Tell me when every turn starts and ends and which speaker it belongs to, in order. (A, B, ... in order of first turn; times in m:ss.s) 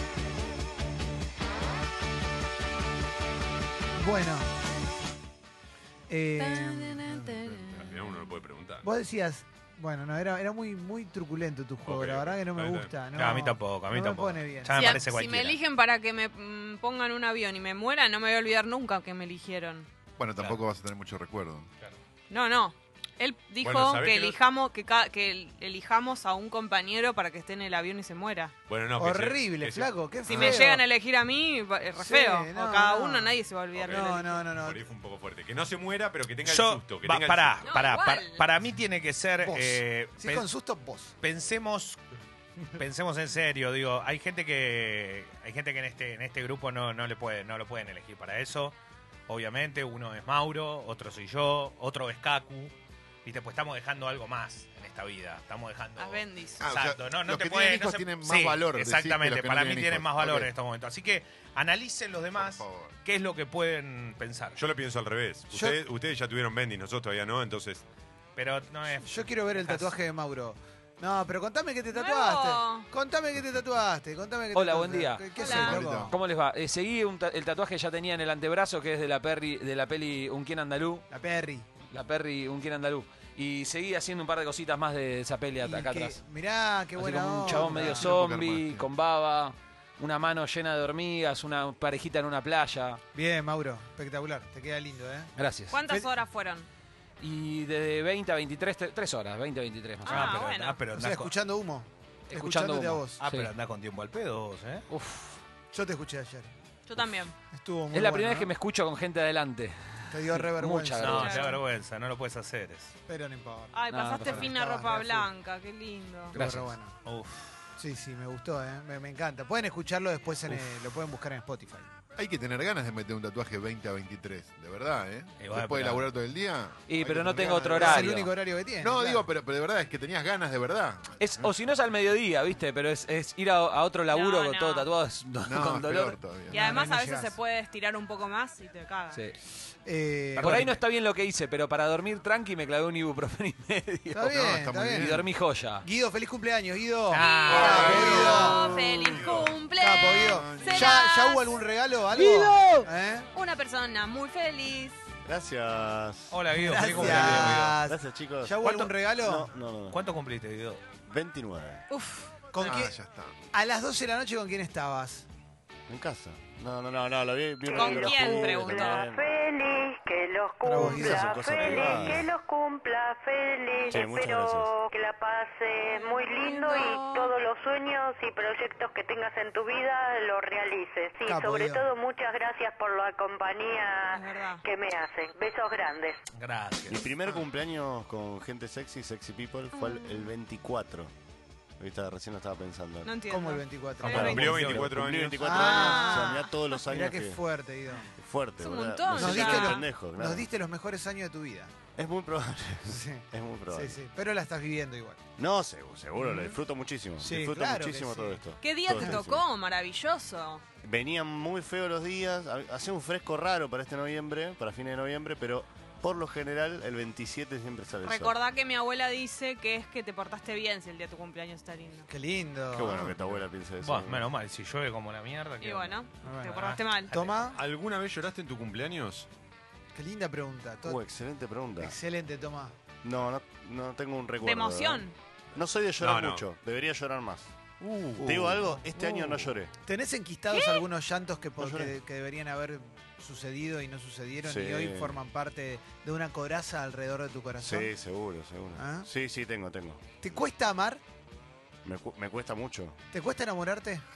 0:04.0-0:04.5 A
0:06.1-0:07.2 A
0:06.4-0:08.3 B
0:07.6-0:08.9 C
0:08.8-0:15.0 A
0:11.8-0:12.9 C
0:13.1-0:15.6 D
0:14.7-0:19.9 B
0:20.2-0:21.7 E
0:22.3-0:28.5 B
0:23.6-0:24.4 C
0:28.7-0:29.9 C
0:29.0-0:30.8 A
0:30.3-0:34.4 B
0:30.3-0:30.6 E
0:32.0-0:34.8 A
0:33.8-0:37.6 C
0:36.4-0:40.4 D
0:37.6-0:38.4 B
0:39.4-0:41.1 A
0:41.2-0:42.0 D
0:42.7-0:48.7 D
0:49.3-0:52.7 D
0:53.2-1:04.6 D
0:56.0-0:56.7 B
0:56.6-1:00.5 E
1:02.4-1:02.9 E
1:04.6-1:07.8 C
1:05.5-1:05.8 A
1:08.4-1:09.9 D
1:09.0-1:16.2 A
1:11.9-1:12.9 B
1:14.5-1:21.0 F
1:15.4-1:15.8 B
1:15.5-1:16.1 E
1:21.1-1:21.7 A
1:21.9-1:26.2 F
1:25.6-1:28.1 A
1:27.0-1:33.0 F
1:27.5-1:28.9 E
1:33.1-1:35.3 A
1:35.4-1:35.8 F
1:35.7-1:36.7 B
1:37.2-1:40.3 F
1:40.0-1:40.8 B
1:40.0-1:41.3 D
1:40.9-1:43.2 A
1:42.3-1:43.5 F
1:43.2-1:44.8 D
1:44.9-1:45.4 F
1:45.7-1:46.5 A
1:46.9-1:47.3 B
1:47.5-1:48.5 A
1:47.9-1:51.4 F
1:50.1-1:51.2 A
1:51.0-1:52.9 D
1:51.1-1:51.6 B
1:53.1-1:55.3 A
1:53.7-1:56.4 B
1:53.9-1:54.5 F
1:56.3-1:56.6 F
1:56.4-1:57.0 A
1:56.4-1:57.5 D
1:57.8-2:01.9 A
2:02.2-2:08.2 E
2:05.4-2:06.0 D
2:06.9-2:08.3 F
2:07.6-2:09.3 A
2:08.8-2:11.5 E
2:11.2-2:16.2 F
2:14.1-2:14.9 B
2:15.4-2:16.6 E
2:16.5-2:17.3 A
2:16.5-2:19.2 B
2:19.8-2:20.7 A
2:20.4-2:20.8 D
2:20.4-2:24.3 F
2:24.1-2:25.2 A
2:24.3-2:25.2 E
2:24.9-2:25.8 F
2:25.8-2:29.1 A
2:27.1-2:28.5 D
2:27.1-2:31.5 B
2:27.5-2:30.9 E
2:27.9-2:28.2 F
2:29.8-2:33.3 A
2:32.1-2:32.9 F
2:33.3-2:35.0 B
2:35.2-2:38.6 G
2:36.3-2:37.7 D
2:36.5-2:39.5 A
2:38.6-2:38.9 D
2:39.2-2:40.0 G
2:39.9-2:40.8 D
2:41.0-2:41.8 G
2:41.9-2:42.3 B
2:42.5-2:42.9 A
2:42.6-2:43.3 E
2:43.5-2:45.2 A
2:45.9-2:49.3 G
2:47.7-2:49.1 B
2:47.8-3:06.2 H
2:50.6-2:52.2 A
2:50.8-2:52.3 G
2:53.9-2:54.7 G
2:55.9-2:57.3 B
3:01.2-3:01.8 A
3:04.1-3:04.6 B
3:06.3-3:07.1 D
3:06.9-3:11.1 G
3:09.7-3:10.3 B
3:11.8-3:13.1 G
3:13.0-3:14.5 B
3:13.3-3:14.5 A
3:14.0-3:17.4 G
3:14.0-3:14.9 D
3:14.2-3:15.5 C
3:15.4-3:18.1 A
3:15.5-3:16.6 B
3:18.2-3:20.5 G
3:18.6-3:19.8 B
3:19.1-3:21.7 A
3:22.0-3:24.0 G
3:22.9-3:25.2 A
3:25.4-3:29.4 G
3:26.2-3:26.6 A
3:27.2-3:28.4 A
3:28.6-3:30.6 B
3:30.8-3:38.3 G
3:38.0-3:42.1 B
3:42.1-3:43.1 A
3:42.7-3:44.2 G
3:43.8-3:45.9 D
3:45.6-3:47.2 B
3:46.2-3:47.6 A
3:47.5-3:49.3 C
3:49.9-3:51.0 A
3:50.8-3:52.0 G
3:51.8-3:52.8 A
3:53.0-3:57.5 G
3:54.4-3:55.1 B
3:56.0-3:56.4 C
3:58.2-3:59.7 G
3:59.8-4:07.9 A
4:00.5-4:00.8 B
4:01.6-4:02.0 G
4:04.4-4:05.2 G
4:07.6-4:10.0 G
4:08.8-4:09.1 A
4:10.2-4:11.0 A
4:11.8-4:13.0 G
4:13.1-4:14.0 A